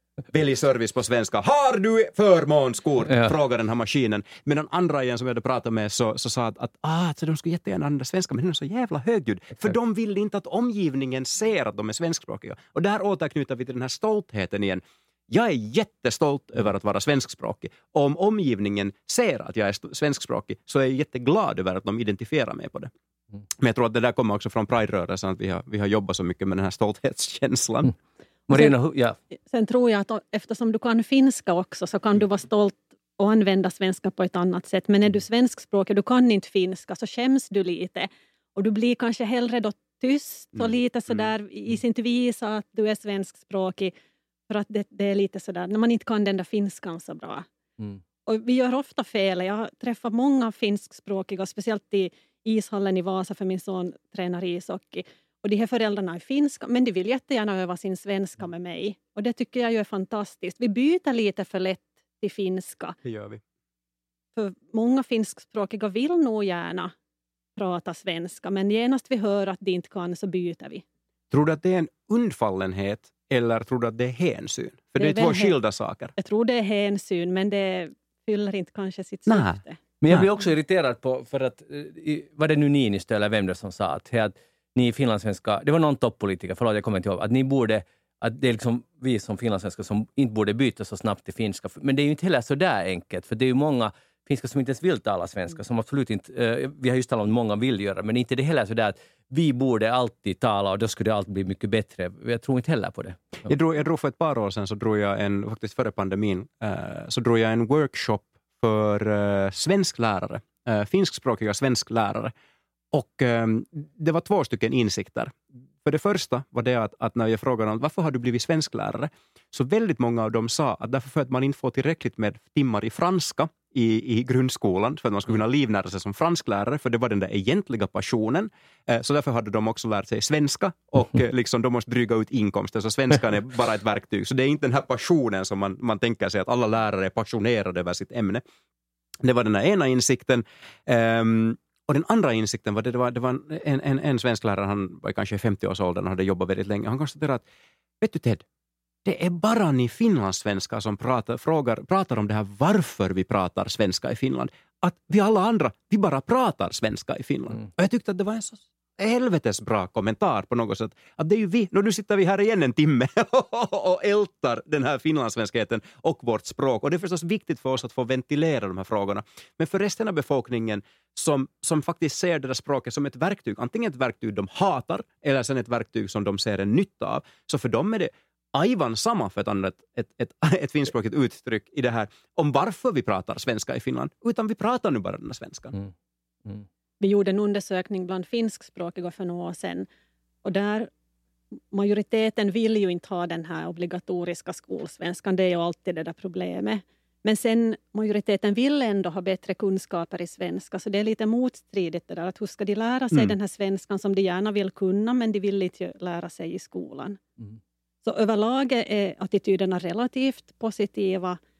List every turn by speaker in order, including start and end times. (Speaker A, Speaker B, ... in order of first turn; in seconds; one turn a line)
Speaker A: 0.3-22.9
Speaker A: 23.6-27.9
Speaker B: 28.5-29.2
Speaker C: 29.5-43.9
Speaker C: 44.5-47.5
Speaker C: 48.3-63.0
Speaker A: 63.0-63.4
Speaker C: 64.4-66.9
Speaker C: 67.6-70.8
Speaker A: 71.3-76.1
Speaker C: 75.0-75.6
Speaker C: 76.2-79.8
Speaker A: 79.3-80.3
Speaker B: 80.0-103.4
Speaker A: 103.5-112.3
Speaker A: 112.9-138.4
Speaker A: 139.2-147.4
Speaker A: 148.0-148.4
Speaker A: 149.1-185.7
Speaker C: 187.0-189.9
Speaker C: 190.4-190.9
Speaker C: 191.7-207.2
Speaker C: 208.0-211.4